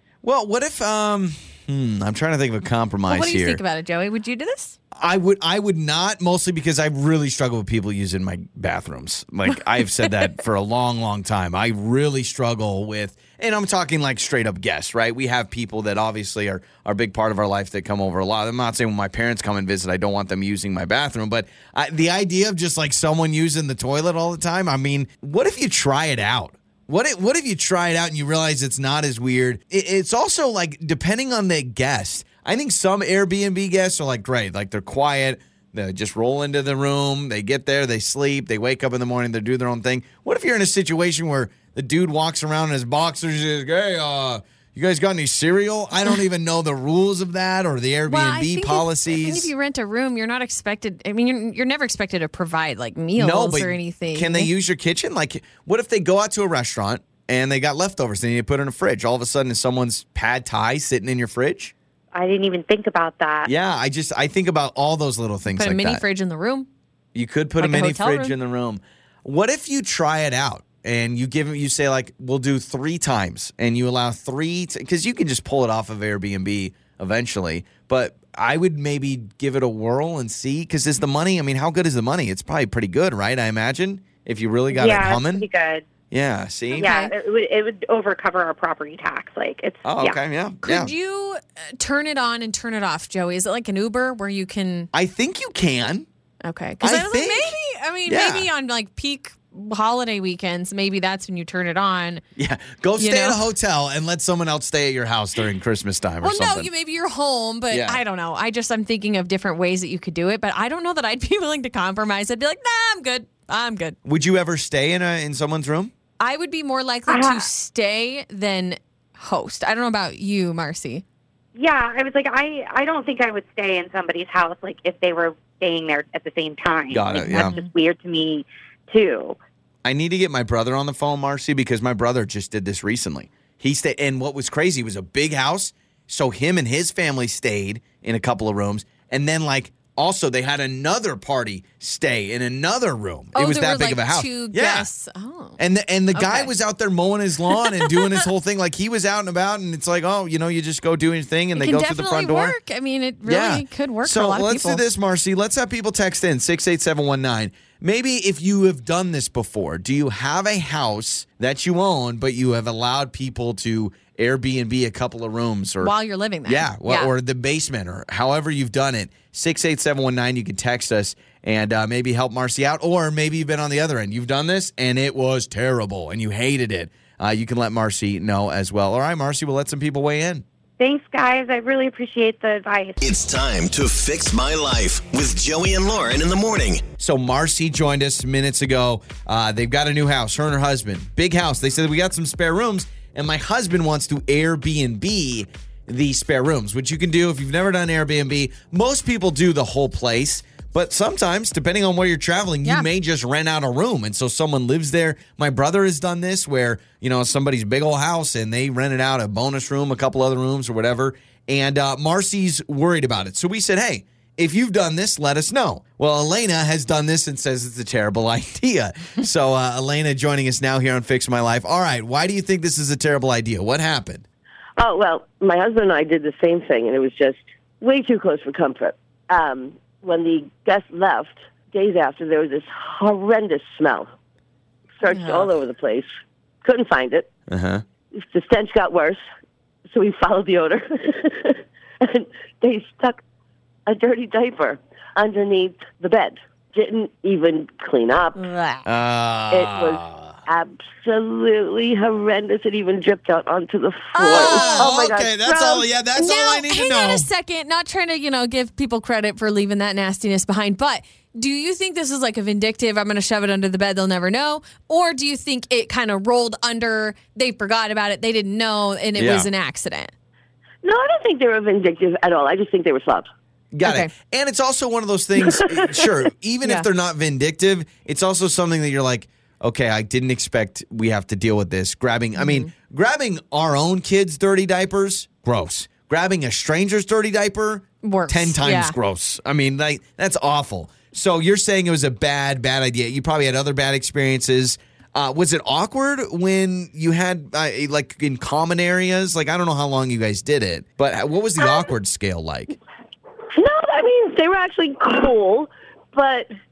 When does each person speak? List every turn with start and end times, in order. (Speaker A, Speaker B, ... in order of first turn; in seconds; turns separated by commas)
Speaker A: 0.2-3.6, Speaker B: 3.1-4.8, Speaker A: 5.0-49.5, Speaker B: 48.0-54.5, Speaker A: 53.1-61.7, Speaker C: 62.1-63.5, Speaker A: 63.4-66.0, Speaker B: 65.5-66.7, Speaker A: 67.1-85.5, Speaker B: 67.6-68.3, Speaker C: 84.7-85.8, Speaker A: 86.1-86.9, Speaker C: 86.7-90.2, Speaker B: 86.7-87.1, Speaker A: 89.8-90.9, Speaker B: 90.6-94.9, Speaker A: 94.9-96.0, Speaker B: 96.4-102.2, Speaker A: 96.8-97.5, Speaker A: 98.0-98.5, Speaker A: 102.4-106.7, Speaker B: 103.0-103.4, Speaker B: 106.2-114.0, Speaker A: 107.7-108.0, Speaker A: 114.0-115.9, Speaker B: 116.2-121.0, Speaker C: 117.1-117.5, Speaker C: 121.5-129.4, Speaker A: 126.9-127.5, Speaker B: 127.2-127.7, Speaker A: 129.8-144.9, Speaker B: 143.3-145.6, Speaker A: 145.6-152.6, Speaker B: 146.1-146.5, Speaker B: 147.5-148.2, Speaker B: 151.5-154.8, Speaker A: 153.2-165.9, Speaker B: 165.8-167.1, Speaker A: 166.4-180.4, Speaker C: 180.8-183.0, Speaker D: 183.0-186.8, Speaker A: 187.0-224.2, Speaker E: 224.8-234.1, Speaker E: 235.0-236.1, Speaker B: 235.1-235.5, Speaker E: 236.6-237.3, Speaker A: 237.5-237.8, Speaker E: 238.1-239.2, Speaker E: 239.9-243.2, Speaker E: 243.9-248.4, Speaker B: 248.4-248.8, Speaker A: 248.8-250.3, Speaker E: 249.5-255.8, Speaker B: 254.1-254.9, Speaker A: 254.3-257.2, Speaker B: 256.1-270.1, Speaker A: 269.1-269.5, Speaker E: 270.8-273.2, Speaker A: 273.7-302.8, Speaker B: 273.8-274.1, Speaker B: 282.4-282.7, Speaker B: 288.0-288.9, Speaker E: 303.5-306.5